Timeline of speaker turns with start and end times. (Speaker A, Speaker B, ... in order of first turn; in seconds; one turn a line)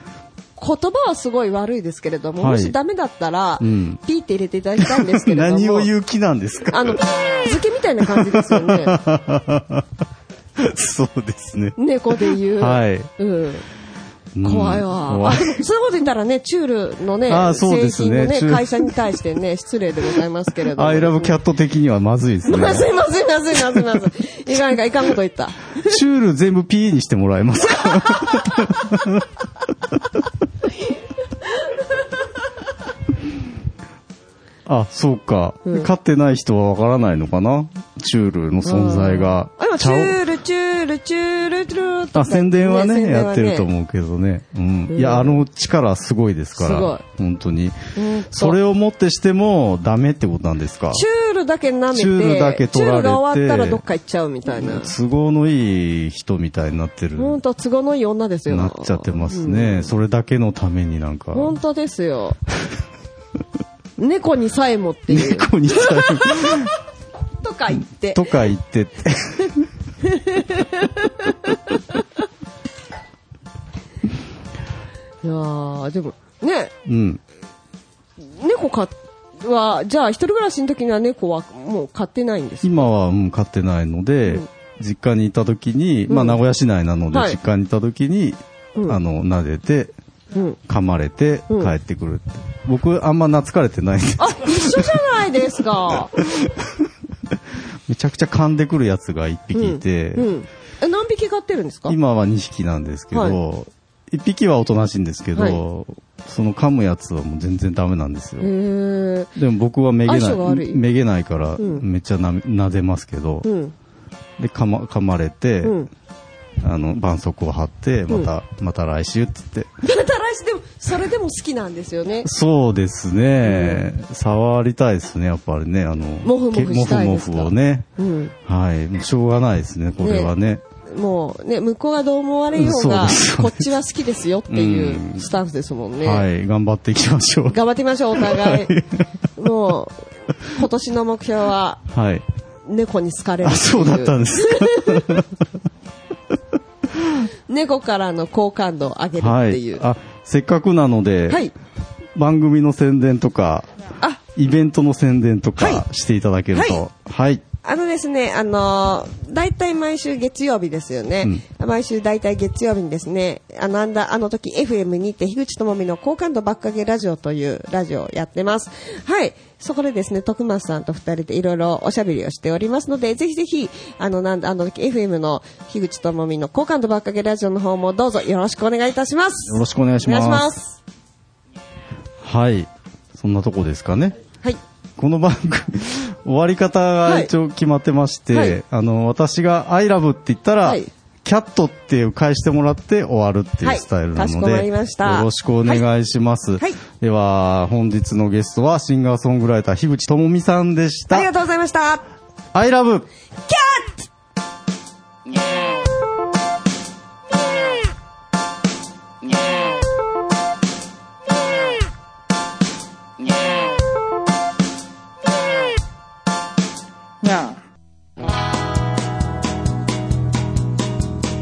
Speaker A: 0.6-5.9
Speaker B: 2.4-2.8
Speaker B: 3.6-4.0
Speaker B: 4.8-7.0
Speaker A: 6.7-9.0
Speaker B: 8.2-9.8
Speaker B: 10.6-11.8
Speaker A: 11.8-13.6
Speaker B: 12.6-13.1
Speaker B: 14.3-15.6
Speaker A: 14.4-21.4
Speaker B: 17.3-18.9
Speaker B: 20.7-22.9
Speaker A: 22.4-26.0
Speaker B: 23.6-23.9
Speaker B: 25.8-29.2
Speaker B: 34.6-40.2
Speaker A: 38.6-43.7
Speaker B: 42.1-47.8
Speaker A: 44.9-45.4
Speaker A: 46.5-47.0
Speaker A: 48.0-48.6
Speaker B: 48.3-51.0
Speaker A: 50.9-54.9
Speaker B: 51.9-53.8
Speaker B: 54.5-57.4
Speaker A: 57.2-59.9
Speaker B: 58.5-61.6
Speaker A: 61.3-62.4
Speaker A: 64.0-66.5
Speaker B: 65.1-66.7
Speaker A: 67.4-68.3
Speaker B: 67.8-69.7
Speaker A: 70.0-72.0
Speaker A: 75.2-76.7
Speaker B: 76.8-77.2
Speaker A: 78.2-82.8
Speaker B: 82.6-89.9
Speaker A: 86.1-86.4
Speaker A: 87.1-87.4
Speaker A: 90.3-90.6
Speaker B: 90.7-95.0
Speaker A: 94.2-96.1
Speaker B: 96.2-96.7
Speaker B: 97.9-100.3
Speaker A: 99.5-102.0
Speaker B: 101.9-108.5
Speaker A: 103.1-103.4
Speaker A: 105.3-105.6
Speaker A: 108.4-109.4
Speaker B: 109.3-113.4
Speaker A: 110.0-110.8
Speaker A: 111.6-111.8
Speaker A: 113.4-113.7
Speaker B: 114.4-115.8
Speaker A: 115.6-115.9
Speaker B: 116.6-119.7
Speaker A: 119.8-122.3
Speaker B: 122.2-127.9
Speaker A: 123.4-123.8
Speaker A: 126.2-128.3
Speaker B: 128.4-130.6
Speaker A: 130.0-130.3
Speaker A: 130.8-136.3
Speaker B: 132.5-133.7
Speaker B: 134.5-135.3
Speaker B: 136.0-137.6
Speaker A: 137.5-138.7
Speaker B: 138.2-139.0
Speaker A: 139.3-141.8
Speaker B: 141.9-142.2
Speaker A: 142.7-145.2
Speaker B: 143.4-145.3
Speaker A: 147.5-149.8
Speaker B: 149.2-151.5
Speaker A: 151.3-151.5
Speaker B: 152.2-153.7
Speaker B: 154.3-157.4
Speaker A: 155.6-155.8
Speaker A: 156.5-156.8
Speaker A: 157.6-180.8
Speaker B: 179.4-180.5
Speaker B: 182.2-184.2
Speaker B: 185.0-201.3
Speaker A: 187.0-187.3
Speaker A: 188.3-188.6
Speaker A: 190.6-190.9
Speaker A: 193.6-195.8
Speaker A: 201.1-202.0
Speaker B: 202.5-203.1
Speaker A: 203.5-204.1